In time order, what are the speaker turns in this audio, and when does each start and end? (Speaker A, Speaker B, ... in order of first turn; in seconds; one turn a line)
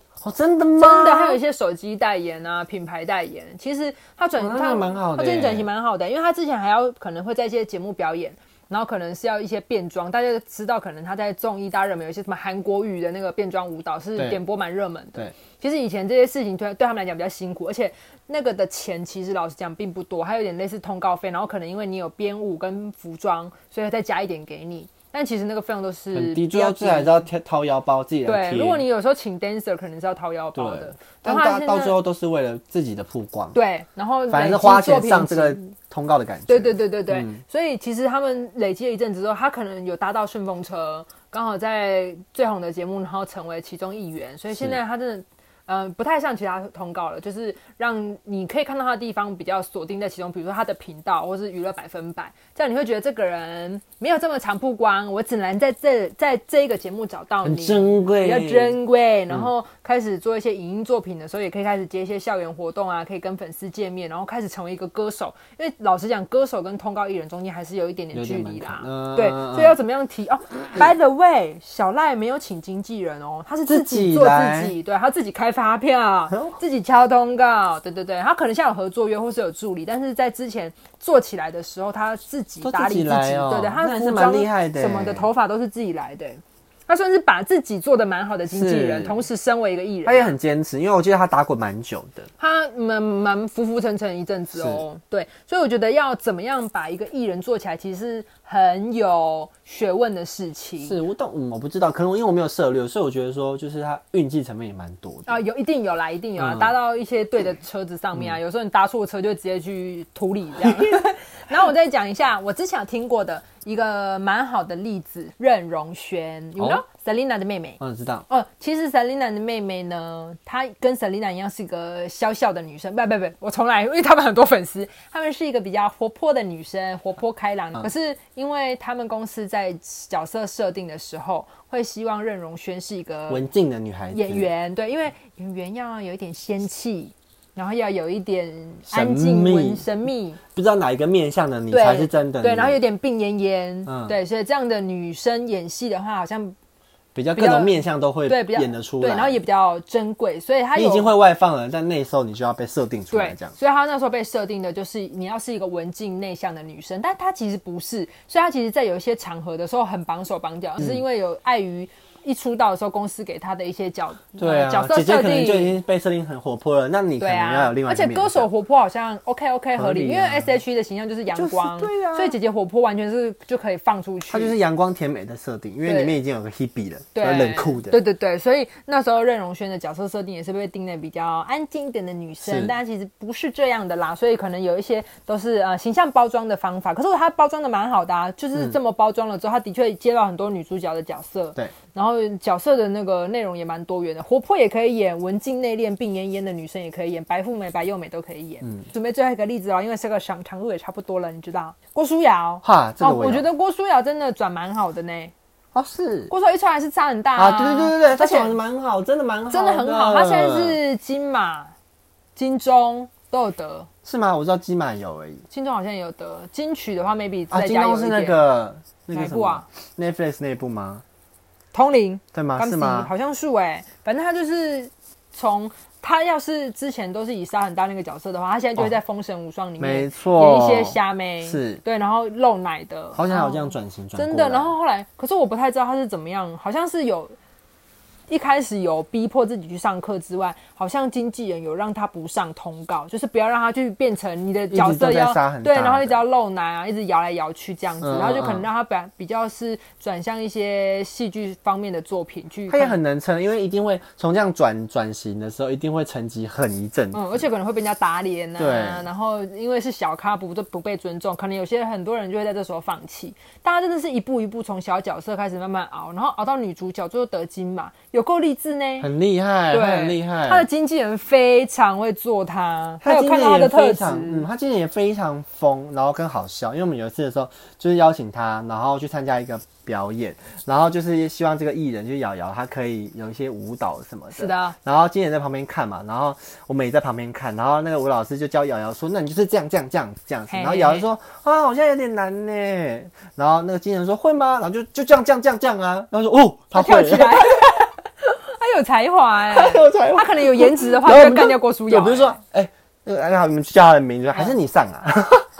Speaker A: 0.2-1.4
Speaker B: 0.8-27.3
Speaker A: 4.4-5.7
Speaker A: 26.1-28.8
Speaker B: 28.2-31.9
Speaker A: 30.5-33.6
Speaker B: 33.5-35.7
Speaker A: 34.3-37.4
Speaker B: 36.5-90.3
Speaker A: 44.5-44.8
Speaker A: 57.4-58.8
Speaker A: 68.1-69.8
Speaker A: 73.7-74.7
Speaker A: 76.3-76.6
Speaker A: 82.6-85.3
Speaker A: 88.5-89.2
Speaker A: 90.0-92.3
Speaker B: 92.4-101.0
Speaker A: 94.5-94.8
Speaker A: 100.8-105.4
Speaker B: 105.3-133.4
Speaker A: 106.4-106.8
Speaker A: 116.6-116.8
Speaker A: 117.8-118.2
Speaker A: 133.3-134.5
Speaker B: 134.1-140.4
Speaker A: 138.9-139.8
Speaker A: 140.5-142.8
Speaker B: 141.7-146.6
Speaker A: 143.9-144.1
Speaker A: 147.1-149.4
Speaker B: 147.3-151.1
Speaker A: 150.7-153.5
Speaker B: 153.1-165.8
Speaker A: 164.4-168.5
Speaker B: 167.2-174.5
Speaker A: 169.7-170.5
Speaker A: 171.3-172.3
Speaker A: 174.3-178.0
Speaker B: 175.8-176.2
Speaker B: 177.1-205.3
Speaker A: 182.4-182.7
Speaker A: 202.6-203.4
Speaker A: 205.7-206.3
Speaker B: 206.3-208.5
Speaker A: 207.3-210.8
Speaker B: 209.5-211.7
Speaker B: 212.3-213.9
Speaker A: 214.0-215.4
Speaker B: 215.5-218.4
Speaker A: 217.5-221.0
Speaker B: 219.1-219.6
Speaker B: 221.7-237.3
Speaker A: 222.3-223.1
Speaker A: 229.8-231.8
Speaker A: 233.1-234.8
Speaker B: 238.3-253.0
Speaker A: 244.7-246.2
Speaker A: 248.0-248.7
Speaker A: 252.7-257.4
Speaker B: 257.1-269.1
Speaker A: 258.6-259.1
Speaker A: 269.0-270.6
Speaker B: 269.7-274.5
Speaker A: 273.0-297.6
Speaker B: 284.3-284.8
Speaker B: 290.5-291.1
Speaker B: 296.7-302.4
Speaker A: 299.5-305.4